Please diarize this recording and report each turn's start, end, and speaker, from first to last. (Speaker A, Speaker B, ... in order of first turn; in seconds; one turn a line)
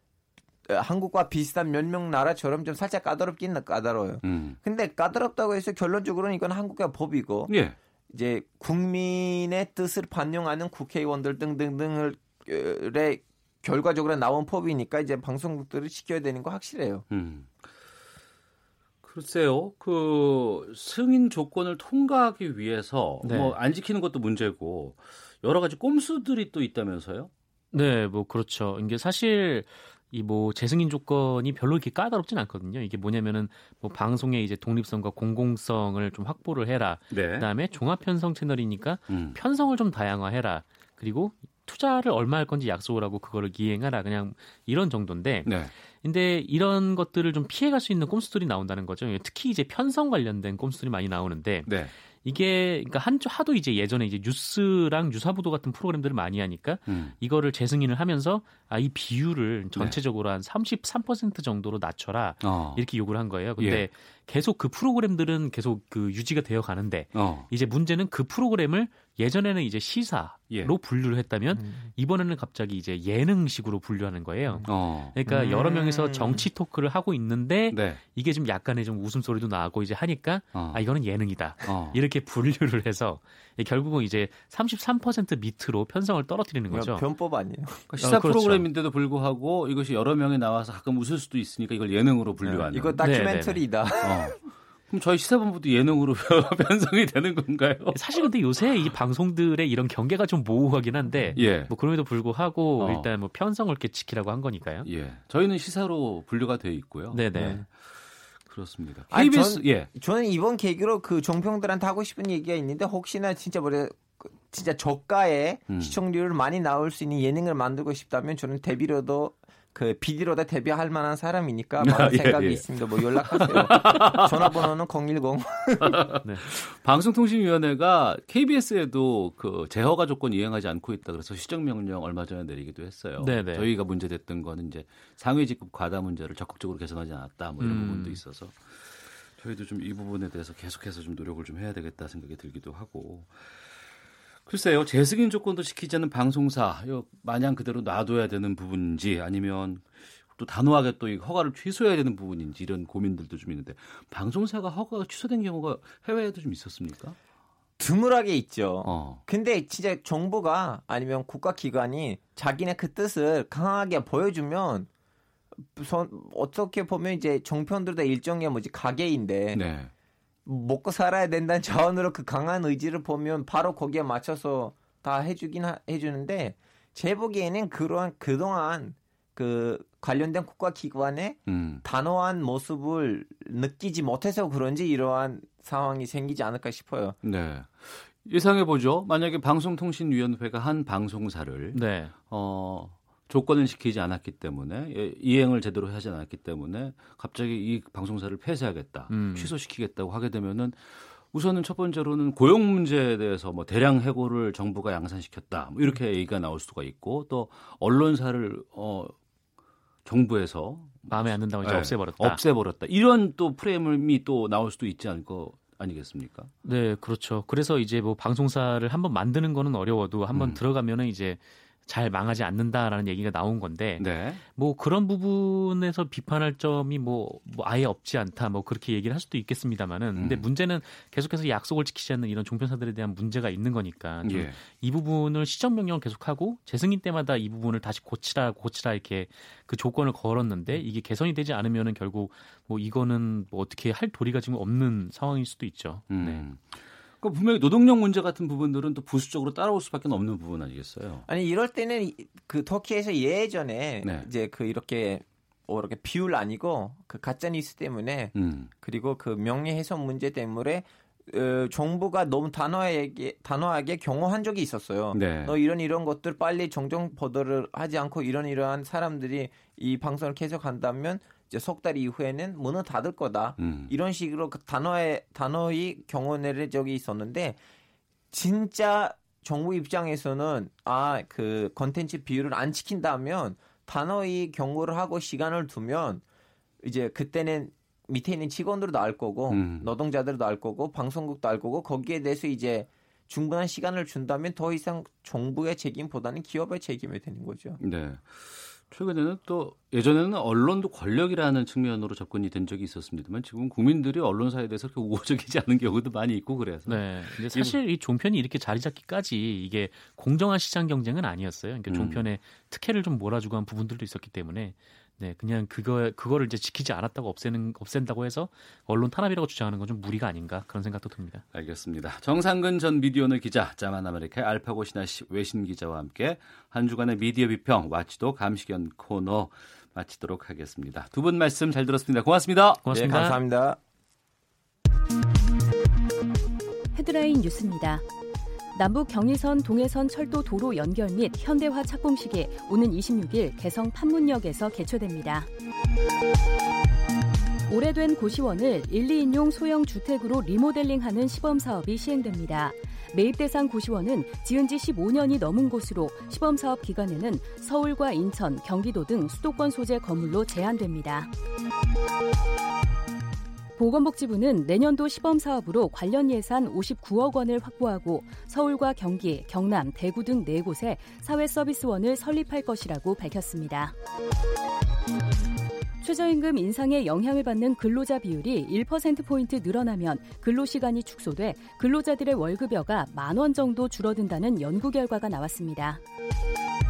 Speaker A: 0.7-7.5
Speaker B: 4.2-4.6
Speaker B: 7.5-7.8
Speaker A: 8.1-17.1
Speaker B: 17.1-17.7
Speaker B: 19.0-27.3
Speaker C: 23.2-23.6
Speaker C: 27.7-87.1
Speaker B: 37.1-37.5
Speaker B: 39.1-39.4
Speaker B: 45.5-45.7
Speaker B: 51.7-51.9
Speaker B: 56.9-57.1
Speaker B: 62.4-62.9
Speaker B: 63.6-63.9
Speaker B: 67.1-67.5
Speaker A: 71.5-71.9
Speaker B: 74.7-75.2
Speaker A: 75.3-76.5
Speaker B: 77.7-78.0
Speaker B: 80.5-80.8
Speaker B: 81.6-82.0
Speaker A: 86.7-87.9
Speaker B: 87.9-93.0
Speaker C: 87.9-88.7
Speaker A: 92.4-94.4
Speaker C: 93.0-93.7
Speaker B: 94.0-98.0
Speaker C: 97.9-104.9
Speaker B: 101.3-101.7
Speaker B: 102.8-103.1
Speaker B: 104.8-109.9
Speaker C: 107.1-107.6
Speaker A: 107.4-107.6
Speaker A: 109.1-126.2
Speaker B: 115.7-116.0
Speaker B: 121.8-124.7
Speaker B: 125.8-143.9
Speaker C: 133.2-133.7
Speaker C: 137.6-138.2
Speaker B: 144.5-157.2
Speaker A: 157.8-164.9
Speaker B: 158.8-159.2
Speaker A: 165.6-169.6
Speaker B: 169.5-169.9
Speaker A: 170.5-187.2
Speaker B: 181.5-181.8
Speaker B: 187.2-209.2
Speaker C: 191.7-192.2
Speaker C: 199.1-199.5
Speaker B: 210.1-216.5
Speaker C: 211.1-212.4
Speaker C: 216.6-246.4
Speaker B: 220.3-220.6
Speaker B: 224.0-224.4
Speaker B: 230.2-230.5
Speaker B: 234.2-234.6
Speaker B: 246.1-251.3
Speaker A: 251.3-277.6
Speaker B: 254.0-254.3
Speaker B: 258.4-258.7
Speaker B: 265.1-265.6
Speaker B: 273.6-273.9
Speaker A: 278.3-286.2
Speaker A: 286.8-297.8
Speaker B: 289.5-289.9
Speaker B: 297.8-307.8
Speaker C: 306.9-321.4
Speaker B: 311.9-312.3
Speaker B: 321.5-332.9
Speaker C: 332.9-333.4
Speaker A: 332.9-333.8
Speaker D: 336.9-338.0
Speaker D: 338.7-345.5
Speaker D: 347.7-361.3
Speaker D: 363.8-373.9
Speaker D: 376.0-386.0